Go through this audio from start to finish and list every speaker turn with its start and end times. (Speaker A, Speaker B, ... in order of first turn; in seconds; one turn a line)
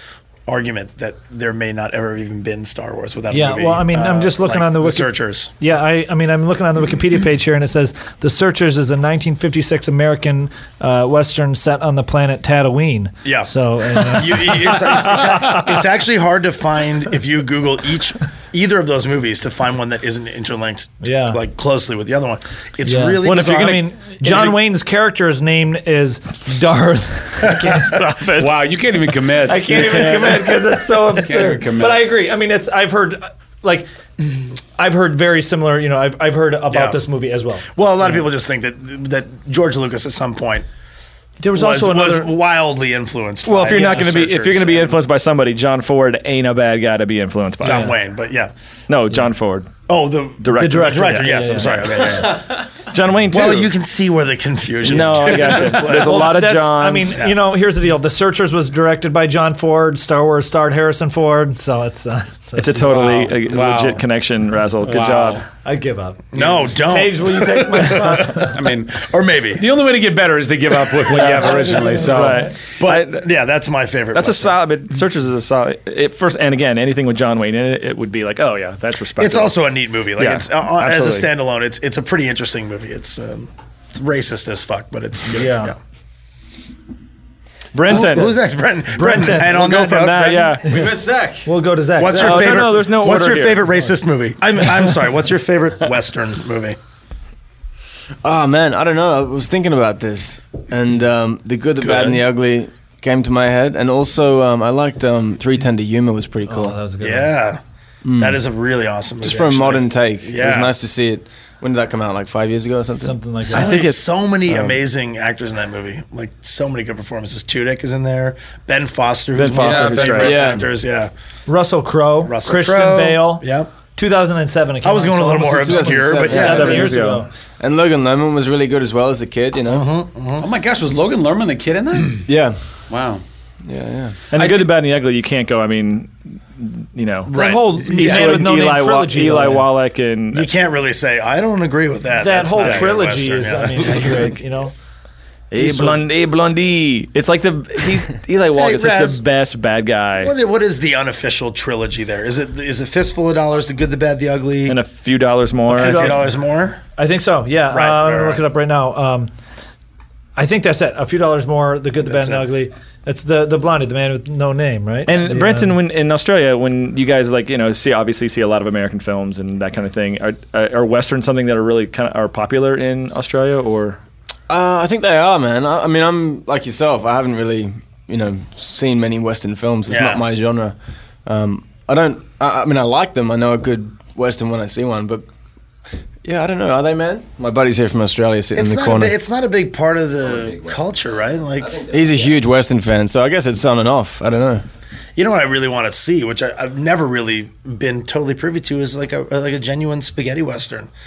Speaker A: 0.5-5.5
Speaker B: 3.3-15.8
Speaker A: 13.2-23.8
Speaker B: 21.0-21.4
Speaker B: 22.8-28.4
Speaker C: 23.2-24.6
Speaker D: 28.4-30.6
Speaker B: 29.4-33.9
Speaker A: 29.6-30.6
Speaker D: 31.1-32.1
Speaker B: 34.8-37.6
Speaker A: 36.7-37.0
Speaker A: 37.7-40.6
Speaker B: 41.4-42.3
Speaker A: 41.5-44.9
Speaker C: 43.4-48.0
Speaker B: 43.7-44.0
Speaker A: 47.6-48.5
Speaker B: 47.6-47.9
Speaker C: 48.9-49.7
Speaker A: 49.9-52.6
Speaker C: 50.4-53.7
Speaker B: 50.5-52.4
Speaker A: 53.3-56.4
Speaker C: 54.8-57.2
Speaker B: 55.9-63.3
Speaker A: 57.1-57.4
Speaker C: 62.5-65.4
Speaker D: 62.9-64.0
Speaker D: 64.8-65.4
Speaker B: 65.6-68.6
Speaker A: 66.3-69.6
Speaker D: 68.5-72.5
Speaker C: 71.1-73.3
Speaker A: 71.1-74.6
Speaker C: 74.1-79.6
Speaker A: 79.2-85.8
Speaker C: 80.2-81.3
Speaker B: 85.3-85.7
Speaker C: 87.7-88.4
Speaker A: 87.8-90.6
Speaker B: 87.9-88.3
Speaker B: 88.9-89.5
Speaker C: 89.1-90.6
Speaker E: 90.6-91.5
Speaker B: 90.6-90.9
Speaker B: 91.4-92.7
Speaker A: 92.0-96.8
Speaker C: 92.1-93.7
Speaker E: 98.2-106.8
Speaker A: 101.8-102.2
Speaker B: 106.5-107.3
Speaker A: 107.0-107.6
Speaker E: 108.0-108.4
Speaker A: 108.2-110.7
Speaker E: 109.2-113.2
Speaker B: 113.0-113.8
Speaker A: 113.5-121.1
Speaker C: 113.5-114.0
Speaker E: 114.5-114.8
Speaker C: 119.3-120.5
Speaker D: 119.6-120.2
Speaker E: 120.1-120.7
Speaker B: 121.5-123.4
Speaker A: 122.2-123.7
Speaker B: 124.0-127.3
Speaker A: 124.8-126.8
Speaker E: 125.7-126.9
Speaker C: 126.3-127.2
Speaker E: 127.6-129.9
Speaker A: 129.7-130.5
Speaker D: 130.4-132.2
Speaker E: 132.3-132.6
Speaker D: 132.9-133.2
Speaker E: 133.6-134.2
Speaker C: 134.3-140.5
Speaker D: 134.3-134.7
Speaker A: 137.3-138.6
Speaker B: 137.3-139.7
Speaker A: 140.3-144.3
Speaker B: 142.2-144.7
Speaker C: 142.6-142.9
Speaker C: 145.5-150.3
Speaker B: 145.6-146.0
Speaker A: 148.5-149.2
Speaker A: 150.2-154.8
Speaker C: 154.7-156.2
Speaker A: 155.7-156.8
Speaker B: 155.8-156.2
Speaker B: 157.0-159.3
Speaker A: 157.7-158.4
Speaker B: 160.3-165.7
Speaker A: 162.0-162.4
Speaker C: 165.1-174.0
Speaker E: 174.5-185.2
Speaker A: 179.9-180.2
Speaker E: 186.2-189.2
Speaker A: 188.5-192.4
Speaker E: 191.7-194.6
Speaker A: 195.2-200.9